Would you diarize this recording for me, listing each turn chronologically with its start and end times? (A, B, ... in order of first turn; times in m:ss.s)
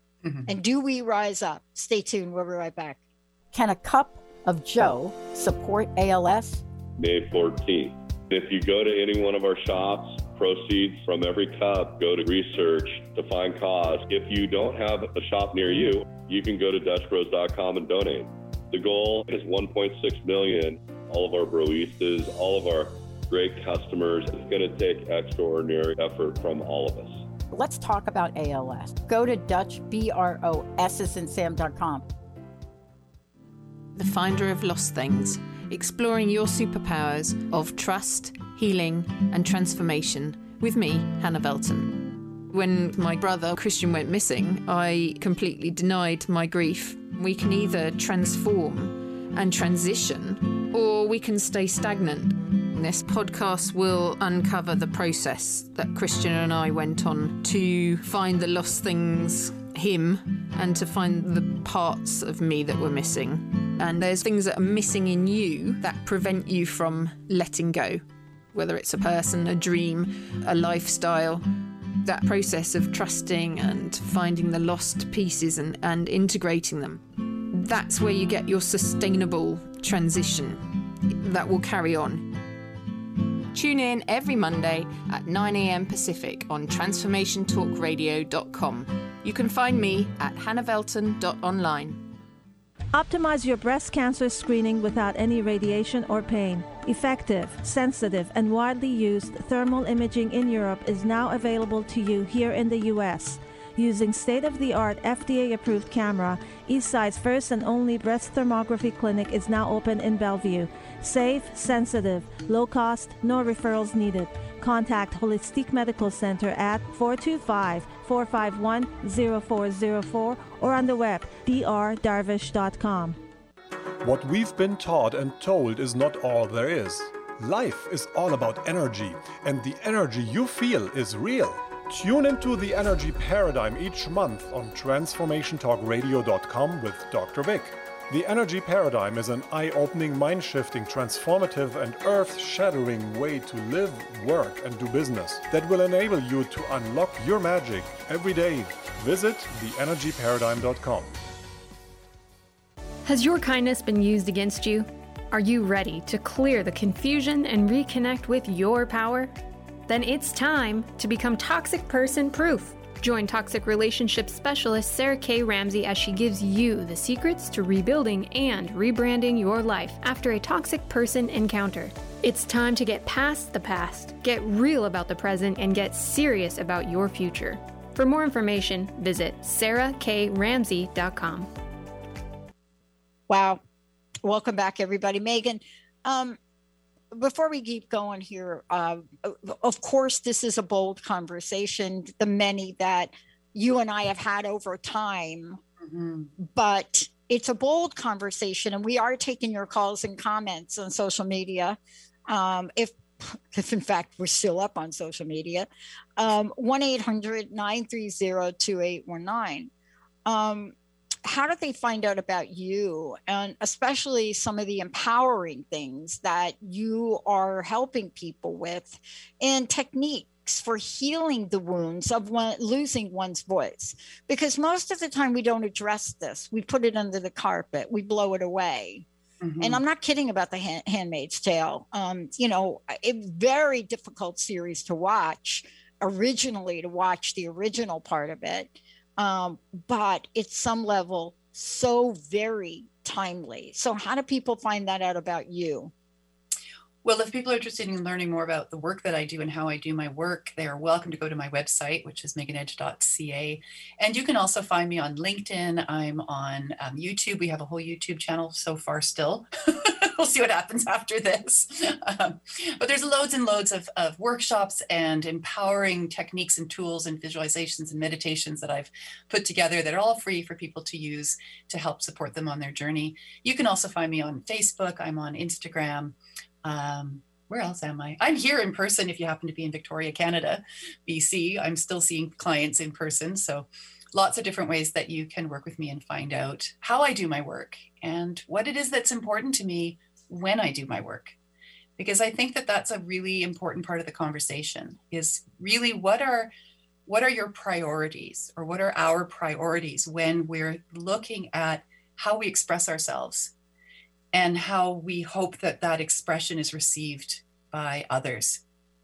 0:00.5-0:03.0 A
0:03.5-0:06.6 A
0:07.0-0:27.3 B
0:27.5-0:32.1 A
0:34.0-1:11.5 C
1:12.0-1:22.4 C
1:23.5-1:32.1 C
1:32.9-2:03.2 D
2:04.0-2:31.1 E
2:33.0-2:39.3 F
2:39.9-3:01.5 F
3:03.3-3:03.6 A
3:04.2-3:06.4 A
3:07.1-3:15.6 A
3:15.8-3:16.3 G
3:16.4-3:29.7 A
3:30.3-3:30.7 A
3:31.2-3:49.1 A
3:49.4-3:49.8 G
3:49.6-4:05.9 A
4:07.0-4:51.4 G
4:52.0-4:56.5 G
4:57.1-5:03.5 G
5:04.3-5:08.6 G